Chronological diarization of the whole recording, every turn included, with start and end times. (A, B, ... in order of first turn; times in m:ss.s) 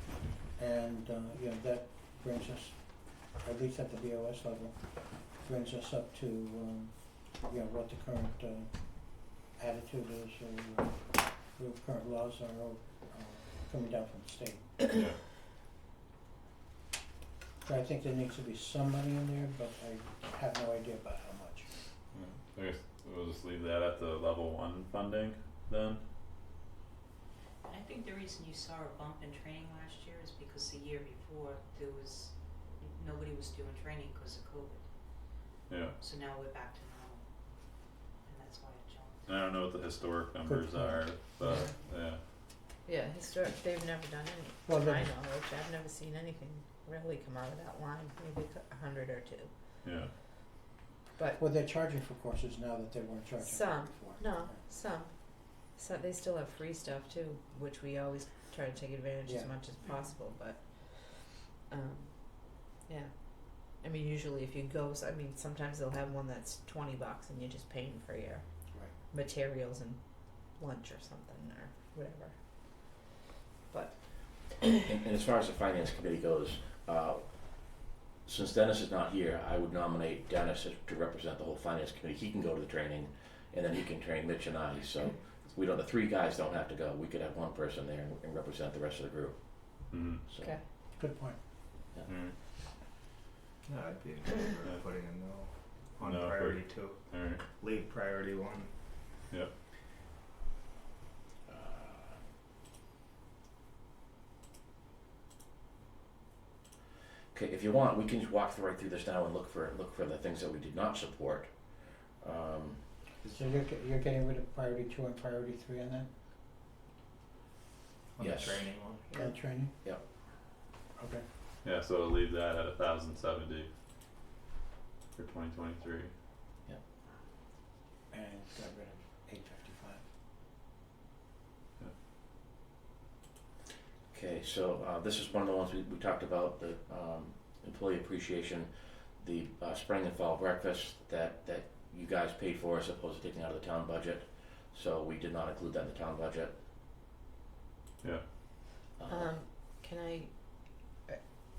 0:00.5-0:14.8 A
0:14.9-0:15.2 B
0:17.6-0:21.7 A
0:22.1-0:26.0 B
0:27.6-0:34.9 C
0:36.0-0:37.2 C
0:38.3-0:39.3 C
0:39.3-0:42.2 B
0:40.4-0:41.0 A
0:41.5-0:41.7 D
0:42.9-0:49.5 D
0:44.7-0:45.1 A
0:49.8-0:50.1 B
0:51.2-0:51.4 D
0:51.4-0:54.6 A
0:53.4-1:08.4 D
1:09.1-1:13.1 D
1:13.7-1:14.7 D
1:14.8-1:30.5 E
1:29.9-1:30.2 B
1:30.4-1:30.6 D
1:31.0-1:31.4 A
1:32.1-1:32.4 B
1:33.6-1:38.7 F
1:36.0-1:37.4 B
1:41.5-1:42.1 E
1:47.3-1:52.8 E
1:53.2-1:56.1 A
1:58.2-1:59.2 F
1:58.2-1:58.7 E
1:59.2-1:59.8 A
2:01.0-2:01.2 A
2:01.6-2:03.7 B
2:05.2-2:06.1 B
2:08.1-2:10.0 A
2:14.1-2:26.6 E
2:29.0-2:29.3 E
2:29.1-2:31.2 D